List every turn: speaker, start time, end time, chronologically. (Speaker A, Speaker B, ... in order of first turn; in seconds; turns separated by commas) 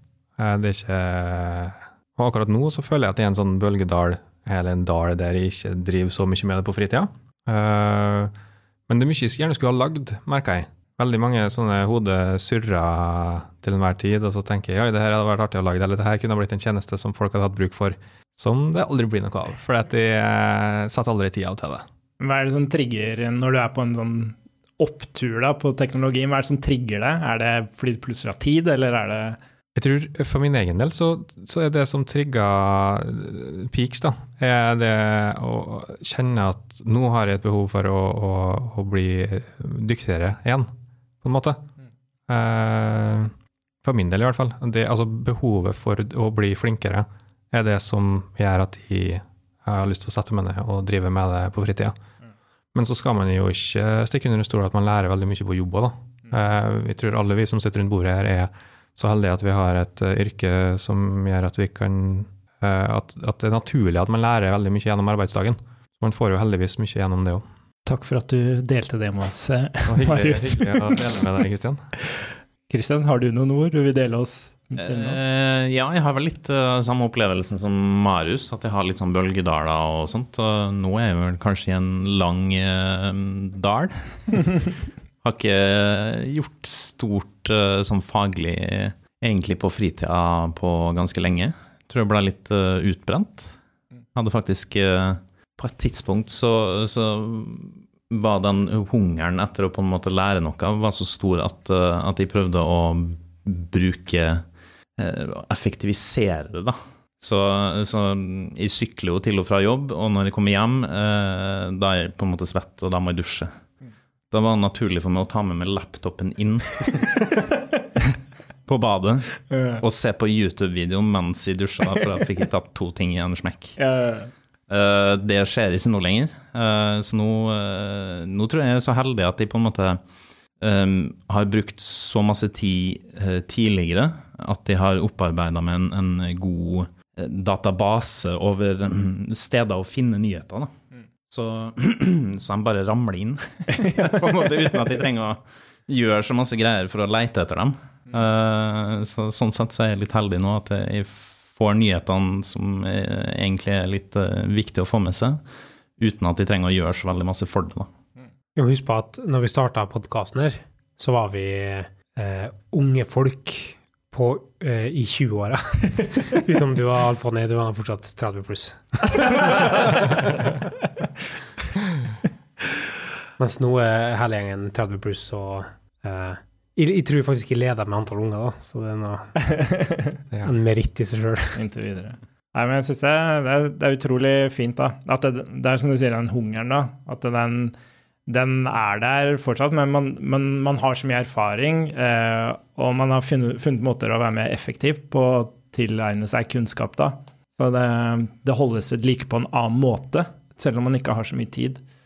Speaker A: 0.4-8.3, Speaker A: 8.9-21.8, Speaker B: 22.2-29.4, Speaker A: 29.7-40.7, Speaker A: 41.2-41.6, Speaker A: 42.3-43.3, Speaker A: 43.8-51.9, Speaker A: 52.7-67.4, Speaker B: 67.8-71.1, Speaker A: 69.9-71.8, Speaker B: 72.7-75.2, Speaker C: 74.8-84.7, Speaker C: 85.2-93.5, Speaker C: 94.1-104.4, Speaker C: 105.0-113.5, Speaker C: 114.3-117.2, Speaker C: 118.0-123.8, Speaker B: 119.5-119.8, Speaker B: 123.8-124.3, Speaker C: 124.7-130.0, Speaker C: 130.6-140.7, Speaker C: 141.3-155.4, Speaker C: 156.0-157.9, Speaker D: 158.6-170.5, Speaker D: 173.4-179.2, Speaker B: 179.4-180.2, Speaker D: 180.4-181.6, Speaker B: 181.6-187.7, Speaker B: 188.3-201.8